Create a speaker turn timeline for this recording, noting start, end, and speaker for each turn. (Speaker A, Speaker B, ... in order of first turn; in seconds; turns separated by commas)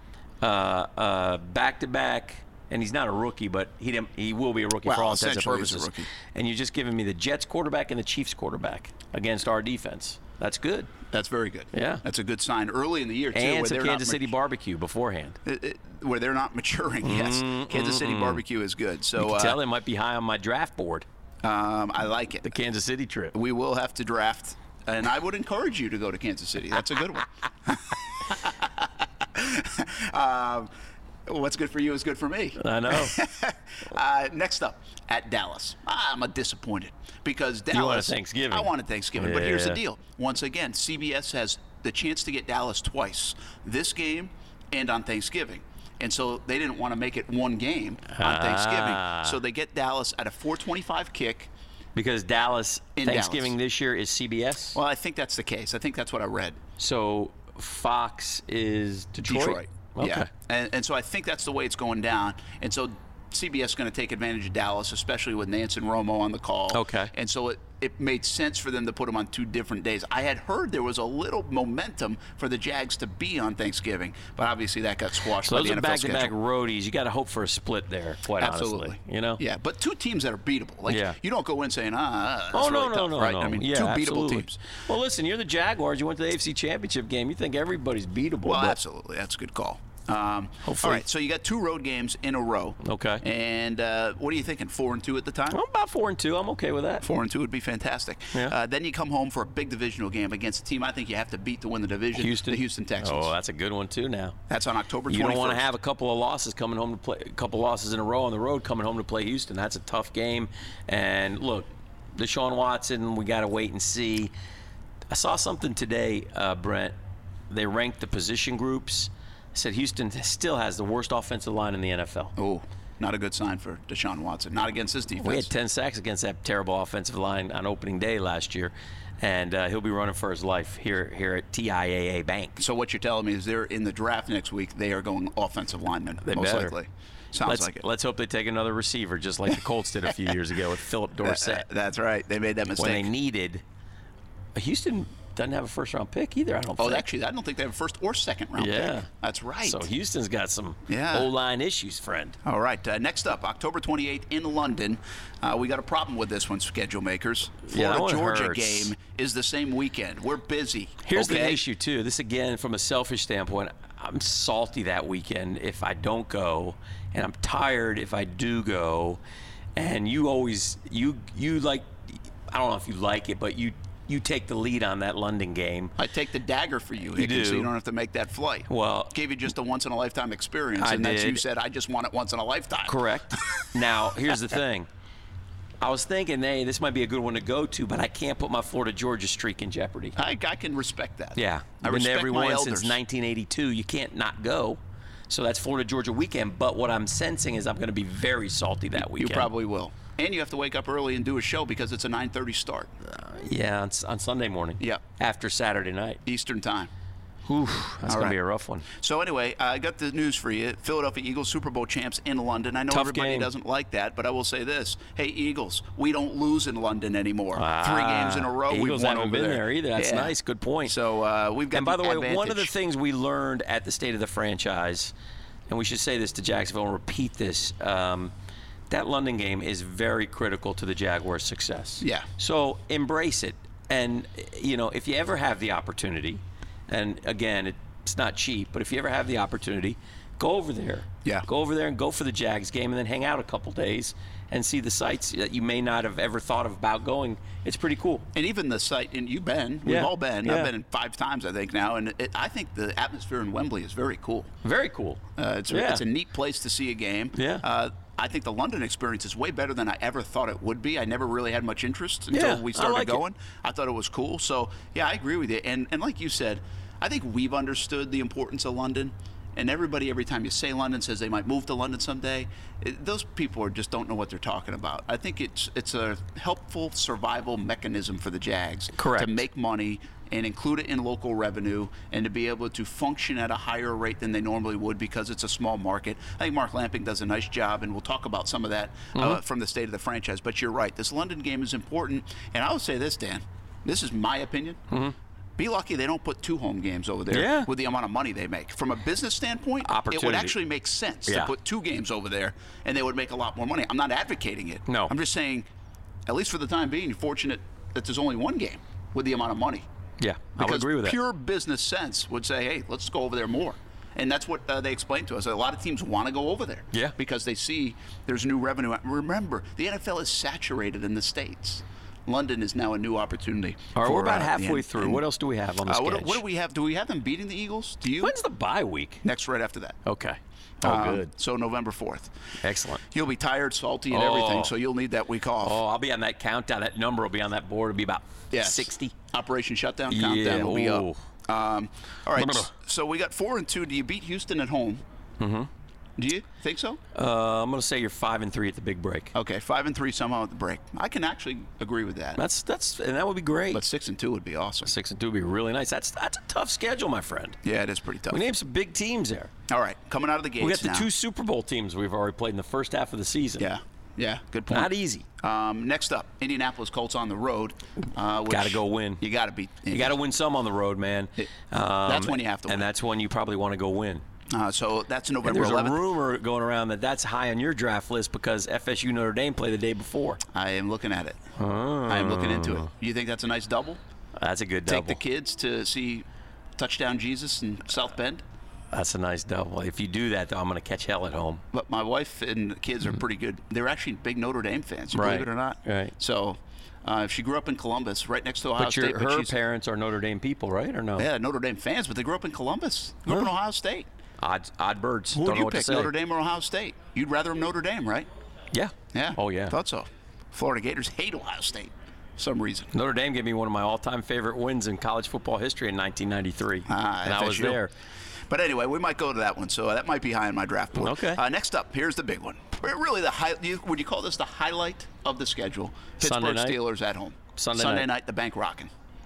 Speaker A: 0.4-10.9, Speaker B: 4.8-6.1, Speaker B: 11.1-14.3, Speaker A: 11.7-12.0, Speaker A: 13.3-15.4, Speaker B: 15.4-19.6, Speaker A: 17.0-18.4, Speaker A: 19.2-21.1, Speaker B: 21.4-22.5, Speaker A: 22.4-23.3, Speaker B: 23.3-30.7, Speaker B: 31.2-51.5, Speaker A: 32.6-33.2, Speaker A: 37.7-39.8, Speaker A: 48.1-49.4, Speaker A: 51.9-54.8, Speaker B: 53.0-53.5, Speaker B: 54.7-56.6, Speaker A: 56.8-60.3, Speaker B: 59.2-76.3, Speaker A: 66.7-67.1, Speaker A: 75.4-79.4, Speaker B: 78.4-84.6, Speaker A: 80.9-81.2, Speaker A: 82.5-88.8, Speaker B: 88.4-95.6, Speaker A: 90.6-91.0, Speaker A: 92.8-93.2, Speaker A: 95.5-97.0, Speaker B: 97.0-103.3, Speaker A: 102.2-104.4, Speaker B: 104.5-105.6, Speaker A: 105.1-114.3, Speaker A: 115.1-116.9, Speaker A: 117.5-122.3, Speaker B: 122.3-125.5, Speaker A: 125.2-132.6, Speaker B: 132.6-137.8, Speaker A: 136.2-136.7, Speaker A: 137.4-141.6, Speaker B: 141.2-143.1, Speaker A: 142.8-143.6, Speaker A: 144.6-147.0, Speaker B: 146.8-149.8, Speaker A: 148.6-149.1, Speaker A: 149.6-152.4, Speaker B: 150.9-151.3, Speaker B: 152.4-161.6, Speaker A: 157.7-158.9, Speaker A: 161.0-169.2, Speaker A: 169.8-175.9, Speaker B: 176.0-183.7, Speaker A: 177.2-177.7, Speaker A: 178.7-179.1, Speaker A: 180.8-181.4, Speaker A: 182.9-184.9, Speaker A: 185.8-190.2, Speaker B: 190.2-193.0, Speaker A: 191.3-194.8, Speaker A: 195.3-199.5, Speaker B: 199.0-202.9, Speaker A: 203.0-206.2, Speaker B: 206.2-206.9, Speaker A: 207.5-208.8, Speaker B: 208.1-208.3, Speaker B: 208.9-220.3, Speaker A: 212.9-213.5, Speaker A: 217.5-220.9, Speaker B: 220.8-222.7, Speaker A: 221.7-225.1, Speaker A: 225.7-228.3, Speaker A: 228.9-248.2, Speaker B: 232.0-232.3, Speaker B: 248.3-254.5, Speaker A: 249.8-250.7, Speaker A: 254.6-256.0, Speaker B: 255.4-294.8, Speaker A: 257.3-257.6, Speaker A: 262.3-263.2, Speaker A: 278.9-279.3, Speaker A: 289.1-289.4, Speaker B: 295.6-305.7, Speaker A: 297.3-297.7, Speaker A: 299.8-300.6, Speaker A: 301.3-301.5, Speaker A: 304.9-305.1, Speaker B: 306.3-309.9, Speaker A: 310.2-311.2, Speaker B: 310.6-325.2, Speaker A: 323.9-326.4, Speaker B: 325.8-328.3, Speaker A: 328.2-329.2, Speaker B: 329.2-330.0, Speaker A: 330.0-331.3, Speaker B: 330.8-332.3, Speaker A: 332.6-333.0, Speaker B: 333.0-335.8, Speaker A: 334.1-334.7, Speaker A: 335.6-339.2, Speaker B: 338.5-345.0, Speaker A: 340.1-341.2, Speaker A: 342.4-342.7, Speaker A: 345.4-345.7, Speaker B: 346.2-347.0, Speaker A: 347.1-349.3, Speaker B: 349.3-352.4, Speaker A: 352.4-353.8, Speaker B: 353.7-354.9, Speaker A: 354.8-357.6, Speaker B: 357.6-358.4, Speaker A: 358.3-359.5, Speaker B: 359.7-361.1, Speaker A: 360.6-363.7, Speaker B: 363.6-370.2, Speaker A: 364.7-365.2, Speaker A: 368.5-369.2, Speaker A: 369.9-374.2, Speaker B: 372.1-372.9, Speaker B: 374.5-376.0, Speaker A: 375.4-380.4, Speaker B: 380.5-381.4, Speaker A: 381.6-382.9, Speaker B: 382.1-384.0, Speaker A: 384.4-385.2, Speaker B: 384.9-386.2, Speaker B: 386.8-388.4, Speaker A: 388.9-391.6, Speaker B: 391.7-399.5, Speaker A: 395.1-396.1, Speaker A: 398.8-401.3, Speaker B: 401.2-404.1, Speaker A: 404.4-406.1, Speaker B: 405.3-408.3, Speaker A: 408.7-409.8, Speaker B: 409.1-412.9, Speaker A: 412.9-417.9, Speaker B: 416.9-417.8, Speaker B: 418.5-428.9, Speaker A: 420.9-421.4, Speaker A: 426.2-426.8, Speaker A: 427.6-428.1